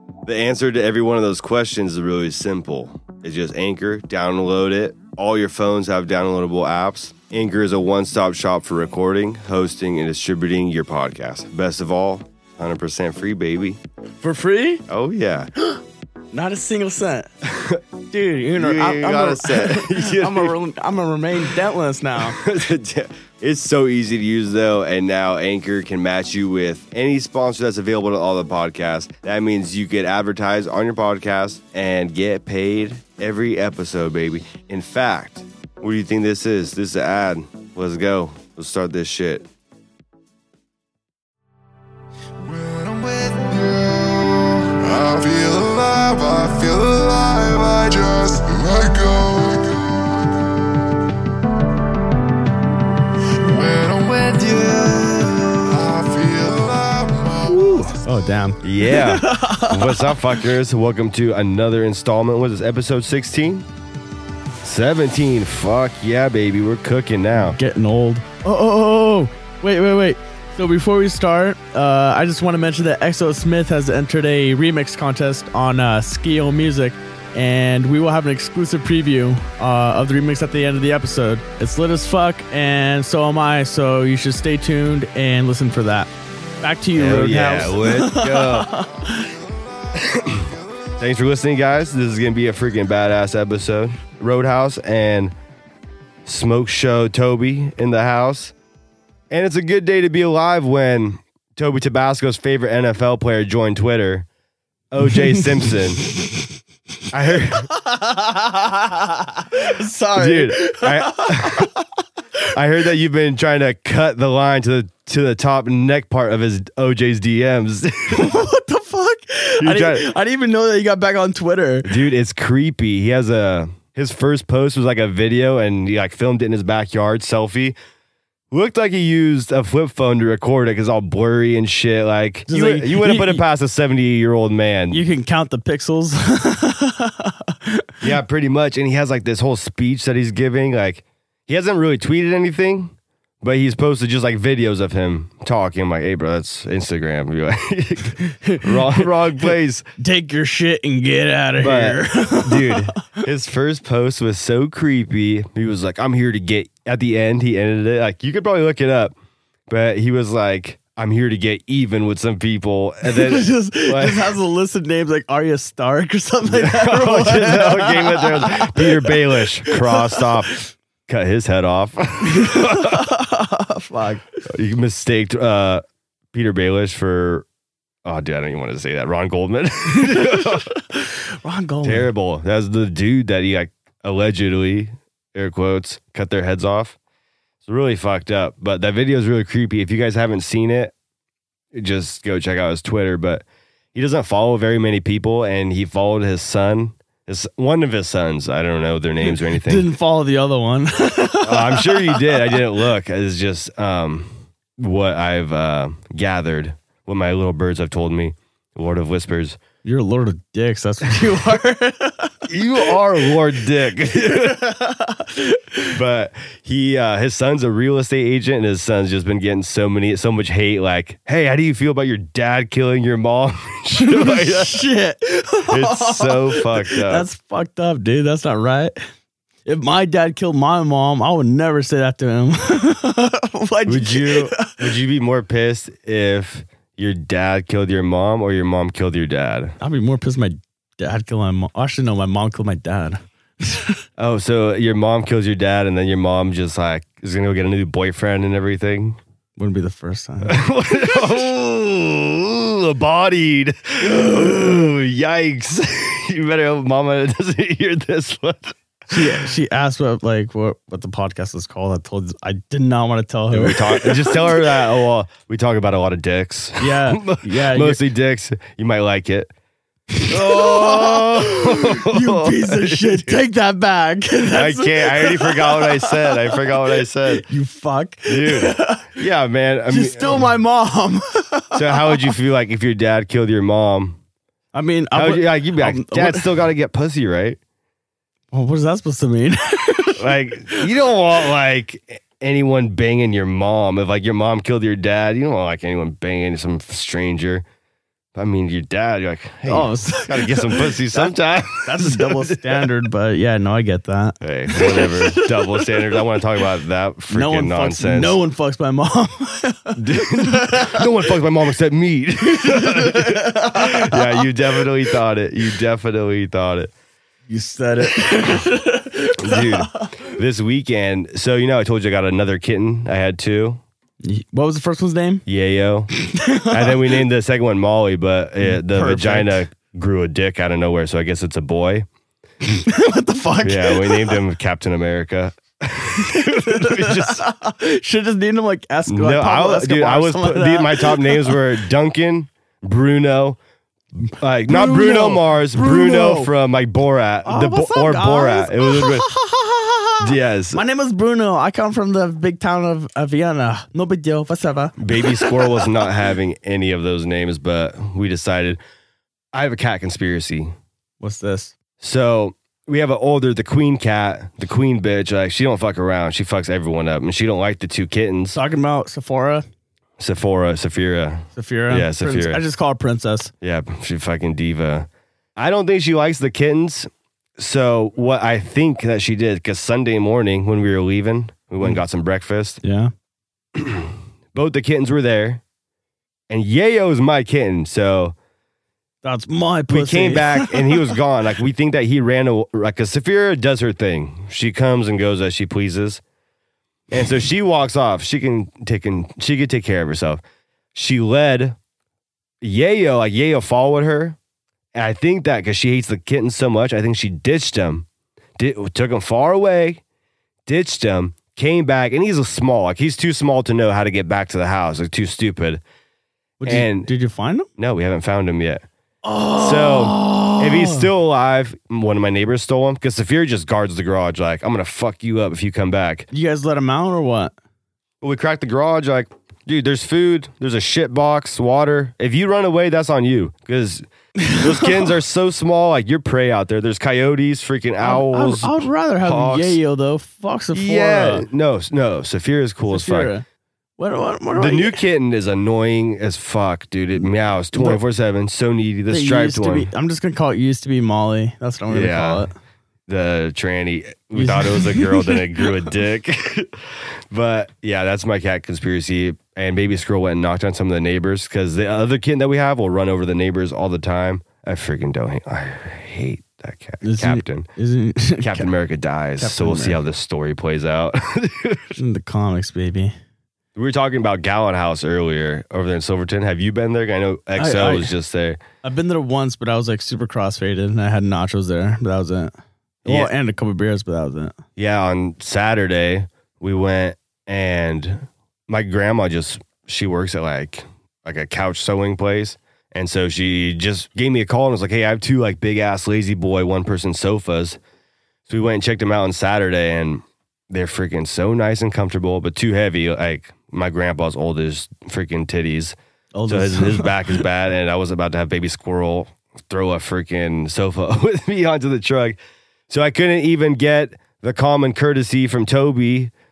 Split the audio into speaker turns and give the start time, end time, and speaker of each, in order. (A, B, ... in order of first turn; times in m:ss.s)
0:00.2-0:13.8 A
0:14.2-0:14.8 B
0:14.9-0:15.5 A
0:16.3-0:17.3 B
0:17.4-0:17.8 A
0:18.1-0:22.4 B
0:18.6-0:20.5 A
0:22.3-0:39.5 A
0:42.4-0:50.1 C
0:53.4-0:57.8 C
0:57.5-0:57.9 A
0:58.0-1:00.4 B
0:58.6-1:03.6 A
1:04.6-1:07.6 A
1:07.4-1:29.3 B
1:27.0-1:28.8 A
1:29.9-1:35.3 A
1:36.2-1:38.5 A
1:39.3-1:44.3 A
1:44.9-1:46.0 A
1:45.1-1:46.5 B
1:47.1-1:47.7 A
1:47.5-1:52.4 B
1:50.2-1:51.7 A
1:52.5-1:58.4 A
1:58.1-2:02.0 B
1:59.6-2:00.1 A
2:01.8-2:07.7 A
2:08.5-2:15.0 A
2:12.5-2:13.4 B
2:14.9-2:18.1 B
2:18.0-2:29.8 A
2:28.3-2:32.9 B
2:31.6-2:39.1 A
2:39.7-2:44.3 A
2:43.0-2:50.5 B
2:46.5-2:53.1 A
2:52.2-2:54.3 B
2:54.4-2:57.4 A
2:58.0-3:00.7 A
2:59.9-3:02.1 B
3:01.8-3:07.0 A
3:07.6-3:10.9 A
3:11.7-3:19.9 A
3:19.2-3:22.6 B
3:21.4-3:29.6 A
3:29.8-3:33.0 B
3:32.5-3:34.6 A
3:34.1-3:35.9 B
3:35.9-3:44.9 A
3:44.0-3:49.0 B
3:45.7-3:47.3 A
3:49.6-3:54.9 B
3:53.9-3:59.8 A
3:59.8-4:04.0 B
4:04.2-4:09.2 A
4:09.6-4:10.6 B
4:10.4-4:19.4 A
4:14.0-4:14.7 B
4:19.1-4:24.8 B
4:23.5-4:29.5 A
4:26.8-4:28.0 B
4:30.1-4:39.2 B
4:30.2-4:33.4 A
4:34.5-4:37.4 A
4:38.3-4:40.5 A
4:39.9-4:42.3 B
4:41.7-4:44.2 A
4:44.7-4:46.5 B
4:45.1-4:47.6 A
4:48.5-4:50.9 B
4:50.2-4:57.6 A
4:58.3-5:02.9 A
4:59.6-5:06.3 B
5:04.4-5:08.4 A
5:07.3-5:11.1 B
5:10.0-5:16.9 A
5:12.5-5:14.6 B
5:17.5-5:20.2 B
5:19.4-5:23.8 A
5:24.2-5:25.4 B
5:25.4-5:32.0 A
5:26.1-5:27.2 B
5:28.6-5:29.6 B
5:32.7-5:34.4 B
5:33.6-5:37.5 A
5:36.1-5:41.7 B
5:39.1-5:43.6 A
5:44.2-5:49.3 A
5:44.7-5:46.5 B
5:47.4-5:56.0 B
5:50.2-5:50.8 A
5:55.0-5:58.8 A
5:59.5-6:00.7 A
6:01.2-6:01.7 B
6:02.0-6:08.6 A
6:08.5-6:09.6 B
6:10.2-6:12.6 A
6:11.5-6:13.5 B
6:13.6-6:22.8 A
6:22.8-6:23.1 B
6:23.7-6:25.6 A
6:26.5-6:28.3 A
6:29.2-6:31.2 B
6:29.9-6:36.2 A
6:37.1-6:40.4 A
6:40.9-6:41.8 A
6:42.6-6:44.4 A
6:44.9-6:48.0 A
6:48.6-6:50.0 A
6:50.7-6:55.8 A
6:56.6-6:57.7 B
6:56.6-6:57.1 A
6:57.8-6:58.8 A
6:59.2-7:01.1 B
6:59.6-7:06.2 A
7:06.3-7:07.5 B
7:08.2-7:19.8 A
7:14.5-7:15.0 B
7:18.0-7:21.5 B
7:20.7-7:23.3 A
7:22.9-7:23.4 B
7:24.0-7:25.0 B
7:24.6-7:29.9 A
7:27.2-7:28.0 B
7:29.1-7:32.5 B
7:31.9-7:32.5 A
7:33.1-7:47.7 A
7:34.3-7:35.7 B
7:47.0-7:48.7 B
7:48.4-7:52.0 A
7:49.4-7:50.0 B
7:52.0-7:53.1 B
7:53.7-7:58.6 A
7:57.6-7:58.1 B
7:58.8-8:02.5 B
8:03.0-8:03.3 A
8:03.0-8:04.6 B
8:04.8-8:17.8 A
8:18.5-8:26.0 A
8:26.3-8:27.4 B
8:26.5-8:36.3 A